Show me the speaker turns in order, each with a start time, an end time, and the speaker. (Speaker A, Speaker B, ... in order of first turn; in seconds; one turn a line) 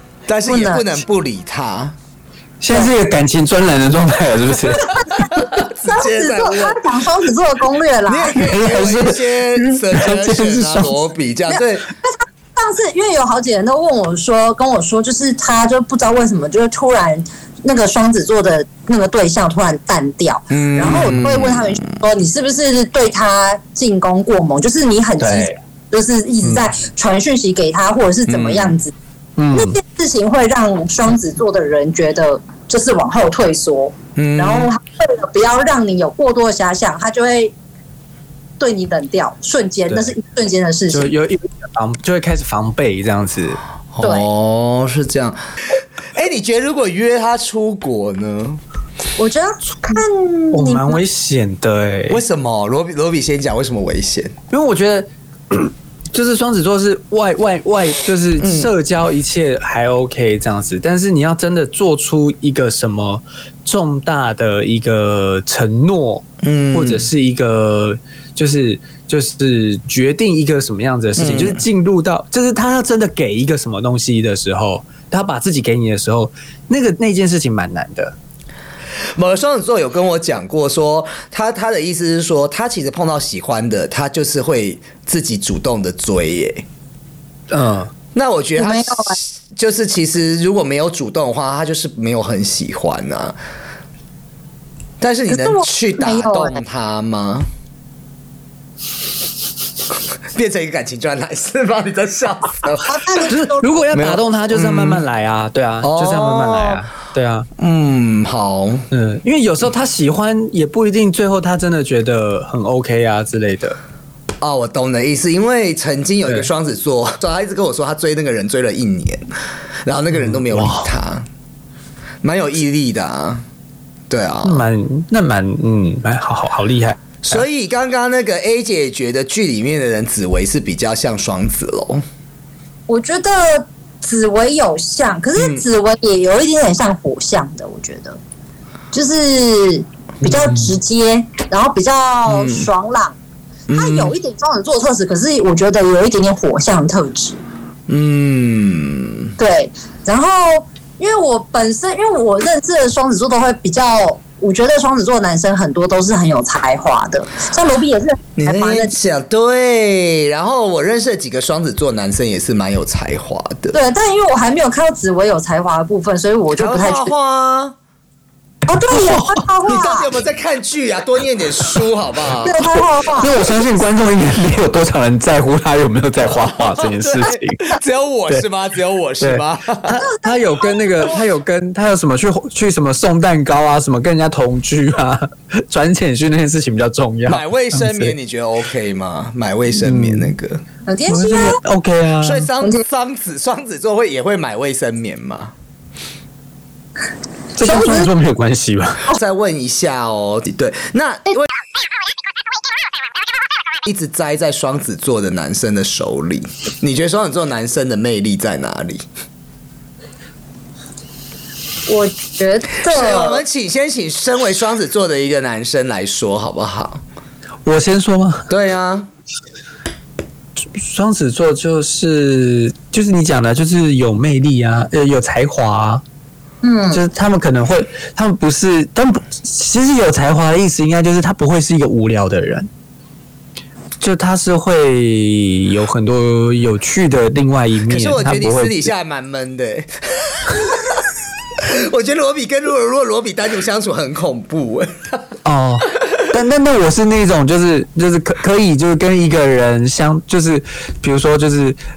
Speaker A: 0.3-1.9
Speaker B: 0.5-1.0
Speaker C: 2.6-4.9
Speaker A: 5.1-6.8
Speaker B: 5.8-8.4
Speaker A: 8.1-11.9
Speaker C: 8.4-11.0
Speaker B: 11.5-28.9
Speaker A: 20.5-22.0
Speaker C: 25.2-25.6
Speaker A: 28.3-28.8
Speaker C: 29.4-29.8
Speaker B: 29.5-37.5
Speaker A: 34.1-34.7
Speaker B: 38.6-41.1
Speaker C: 40.9-43.6
Speaker A: 43.9-45.4
Speaker A: 46.1-48.6
Speaker B: 49.2-51.0
Speaker C: 50.5-52.2
Speaker A: 52.1-54.3
Speaker C: 54.5-78.1
Speaker A: 58.4-58.7
Speaker A: 66.4-67.1
Speaker A: 71.2-71.6
Speaker A: 79.1-86.6
Speaker C: 87.5-87.9
Speaker A: 88.1-93.4
Speaker B: 88.6-89.2
Speaker A: 95.0-97.5
Speaker B: 95.3-96.6
Speaker A: 100.3-105.0
Speaker B: 102.8-103.7
Speaker C: 103.3-107.5
Speaker A: 105.8-106.8
Speaker A: 107.6-108.8
Speaker C: 108.9-113.8
Speaker A: 114.4-119.3
Speaker A: 119.8-121.3
Speaker C: 120.2-120.9
Speaker A: 122.2-123.4
Speaker A: 124.1-124.6
Speaker C: 124.4-127.4
Speaker A: 127.2-132.0
Speaker B: 132.9-138.2
Speaker A: 135.3-135.6
Speaker B: 138.9-143.2
Speaker A: 142.3-142.7
Speaker A: 143.7-144.2
Speaker B: 143.7-147.4
Speaker A: 147.9-149.3
Speaker B: 149.4-158.9
Speaker A: 158.4-163.8
Speaker B: 163.7-167.1
Speaker A: 166.5-167.7
Speaker B: 168.7-170.1
Speaker C: 168.9-169.4
Speaker A: 169.6-172.6
Speaker B: 172.4-173.3
Speaker C: 173.2-177.8
Speaker A: 176.4-180.0
Speaker C: 179.2-188.1
Speaker B: 180.1-181.0
Speaker A: 187.3-190.6
Speaker C: 189.7-190.3
Speaker B: 190.8-191.6
Speaker C: 191.1-192.5
Speaker A: 192.2-195.5
Speaker B: 197.6-198.1
Speaker C: 197.6-199.1
Speaker A: 199.1-201.5
Speaker A: 203.8-209.0
Speaker B: 211.9-213.4
Speaker A: 212.8-217.0
Speaker C: 217.6-218.5
Speaker A: 218.5-219.1
Speaker C: 220.7-226.0
Speaker B: 226.6-227.0
Speaker C: 226.9-232.7
Speaker C: 234.0-238.9
Speaker A: 237.9-241.0
Speaker A: 241.6-245.3
Speaker C: 245.4-251.8